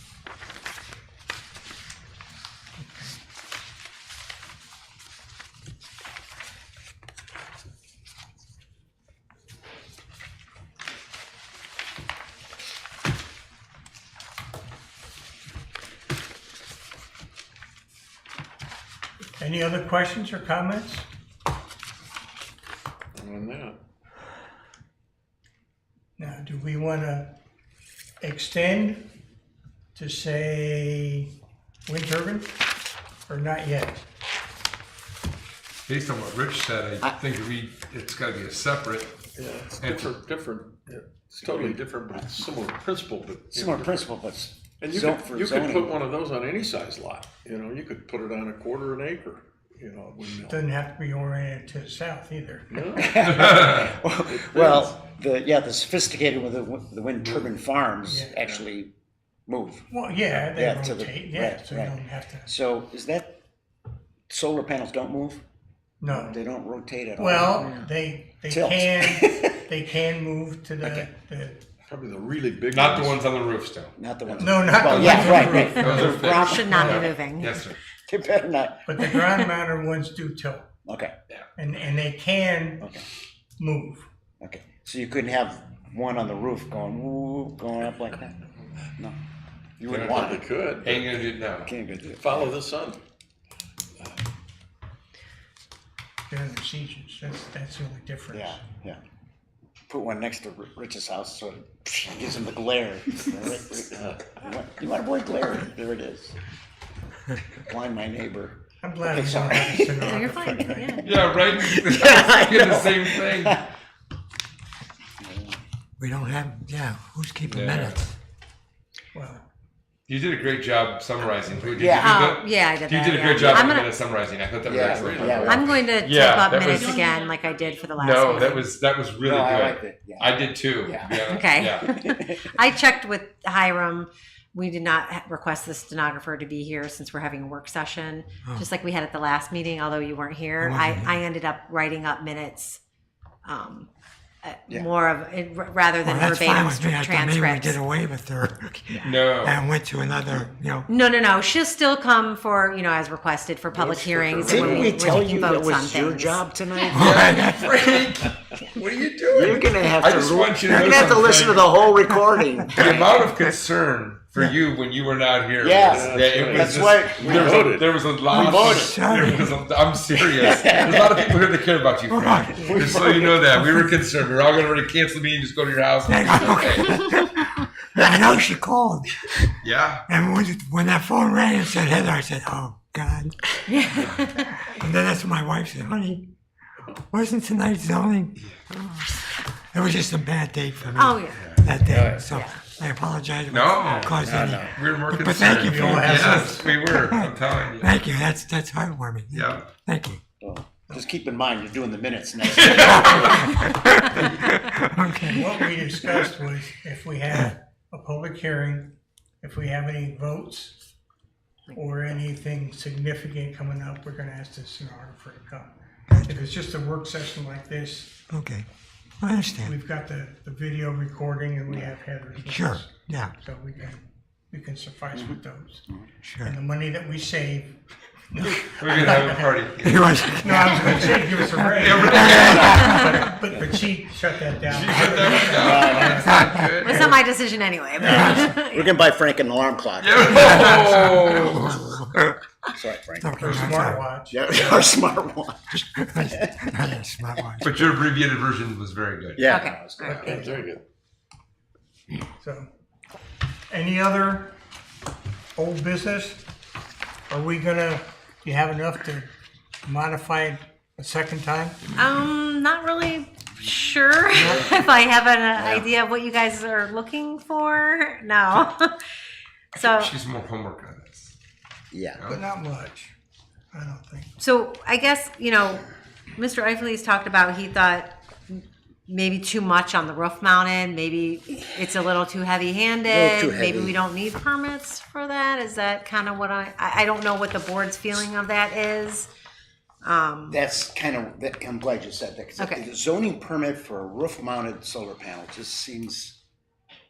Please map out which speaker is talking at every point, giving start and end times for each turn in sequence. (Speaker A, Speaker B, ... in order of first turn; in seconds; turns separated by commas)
Speaker A: 2.8-3.2, Speaker A: 19.4-21.1, Speaker B: 23.1-23.8, Speaker A: 26.2-27.4, Speaker A: 28.2-29.1, Speaker A: 29.9-31.3, Speaker A: 31.9-32.5, Speaker A: 33.3-34.0, Speaker C: 35.9-39.3, Speaker B: 39.4-44.1, Speaker C: 39.8-40.1, Speaker D: 41.4-42.5, Speaker D: 43.5-46.0, Speaker B: 44.8-50.7, Speaker A: 50.5-52.8, Speaker B: 52.7-54.9, Speaker D: 52.9-58.9, Speaker C: 53.4-53.7, Speaker A: 58.1-58.4, Speaker D: 59.5-59.8, Speaker A: 59.9-62.5, Speaker D: 60.5-63.4, Speaker D: 64.3-65.4, Speaker A: 66.0-66.4, Speaker D: 66.1-67.8, Speaker A: 67.2-71.6, Speaker D: 68.5-69.6, Speaker D: 70.8-71.1, Speaker B: 71.9-73.3, Speaker C: 72.7-74.0, Speaker D: 74.0-77.0, Speaker B: 74.4-76.1, Speaker A: 74.4-75.8, Speaker C: 74.8-77.8, Speaker E: 75.0-77.6, Speaker A: 76.7-77.0, Speaker D: 78.1-78.9, Speaker A: 78.8-80.7, Speaker D: 80.8-81.1, Speaker A: 81.6-82.9, Speaker A: 83.6-84.0, Speaker D: 84.4-88.4, Speaker D: 89.8-90.5, Speaker C: 89.9-91.8, Speaker B: 90.0-91.1, Speaker D: 91.6-92.5, Speaker B: 92.1-93.0, Speaker A: 96.3-98.6, Speaker D: 98.3-99.0, Speaker D: 99.9-106.3, Speaker D: 107.5-108.6, Speaker A: 108.8-111.2, Speaker D: 109.1-110.1, Speaker E: 110.0-111.1, Speaker C: 111.0-113.6, Speaker D: 111.6-113.7, Speaker D: 115.2-115.6, Speaker F: 116.0-118.1, Speaker C: 117.4-118.1, Speaker A: 119.1-119.5, Speaker C: 120.1-127.1, Speaker D: 121.7-122.2, Speaker E: 122.0-124.0, Speaker D: 124.6-125.8, Speaker B: 124.7-125.6, Speaker E: 125.4-128.7, Speaker C: 128.0-131.9, Speaker D: 129.2-131.3, Speaker E: 131.2-142.8, Speaker D: 131.9-132.5, Speaker F: 140.6-141.1, Speaker E: 143.4-143.9, Speaker E: 144.4-147.8, Speaker F: 146.0-150.9, Speaker C: 149.0-149.6, Speaker E: 150.9-156.5, Speaker B: 153.7-155.3, Speaker D: 154.3-157.2, Speaker F: 156.9-157.8, Speaker C: 156.9-161.8, Speaker D: 159.3-163.1, Speaker F: 160.7-161.3, Speaker C: 162.7-176.9, Speaker D: 165.6-167.7, Speaker B: 165.9-167.9, Speaker D: 168.3-169.0, Speaker F: 168.3-169.5, Speaker D: 170.2-171.3, Speaker F: 172.1-172.8, Speaker D: 172.6-173.4, Speaker F: 176.1-183.5, Speaker D: 178.0-178.4, Speaker C: 179.6-180.0, Speaker E: 183.7-184.5, Speaker F: 184.5-186.3, Speaker F: 187.1-200.2, Speaker E: 191.0-191.4, Speaker C: 191.8-192.2, Speaker E: 192.3-192.6, Speaker C: 193.5-197.9, Speaker D: 194.2-194.7, Speaker A: 195.5-196.8, Speaker C: 199.3-199.7, Speaker D: 200.4-203.5, Speaker C: 202.6-203.5, Speaker F: 202.7-206.2, Speaker A: 205.3-210.9, Speaker F: 207.3-207.5, Speaker E: 211.7-212.2, Speaker A: 211.7-218.2, Speaker F: 216.1-216.4, Speaker F: 218.3-218.7, Speaker F: 219.2-219.7, Speaker A: 219.6-225.8, Speaker F: 222.4-223.3, Speaker F: 226.2-226.6, Speaker A: 226.4-229.6, Speaker C: 228.8-230.3, Speaker F: 229.8-233.2, Speaker A: 230.3-237.1, Speaker C: 231.7-232.8, Speaker D: 232.4-232.9, Speaker E: 232.7-233.2, Speaker C: 234.6-237.2, Speaker D: 235.5-236.2, Speaker F: 236.2-236.7, Speaker E: 236.8-238.9, Speaker A: 238.0-238.4, Speaker F: 238.1-238.5, Speaker D: 238.5-240.8, Speaker C: 240.0-242.0, Speaker F: 240.3-242.4, Speaker D: 242.7-243.8, Speaker F: 243.2-244.0, Speaker A: 243.4-244.3, Speaker D: 244.3-245.7, Speaker C: 244.5-244.9, Speaker F: 245.7-247.7, Speaker D: 246.3-246.6, Speaker C: 247.6-249.5, Speaker D: 249.3-250.5, Speaker E: 249.5-250.7, Speaker C: 250.0-250.3, Speaker B: 250.2-250.8, Speaker A: 250.3-250.5, Speaker A: 252.4-252.7, Speaker A: 253.7-254.5, Speaker A: 255.6-256.4, Speaker A: 257.3-259.3, Speaker A: 259.8-261.8, Speaker E: 261.9-268.9, Speaker A: 264.3-264.8, Speaker E: 269.7-270.1, Speaker C: 269.7-271.3, Speaker D: 271.9-272.2, Speaker C: 272.1-272.4, Speaker A: 272.3-273.1, Speaker A: 273.7-274.3, Speaker E: 274.4-275.8, Speaker E: 276.4-289.3, Speaker D: 283.1-284.0, Speaker E: 290.0-290.6, Speaker D: 290.5-296.4, Speaker E: 292.6-292.8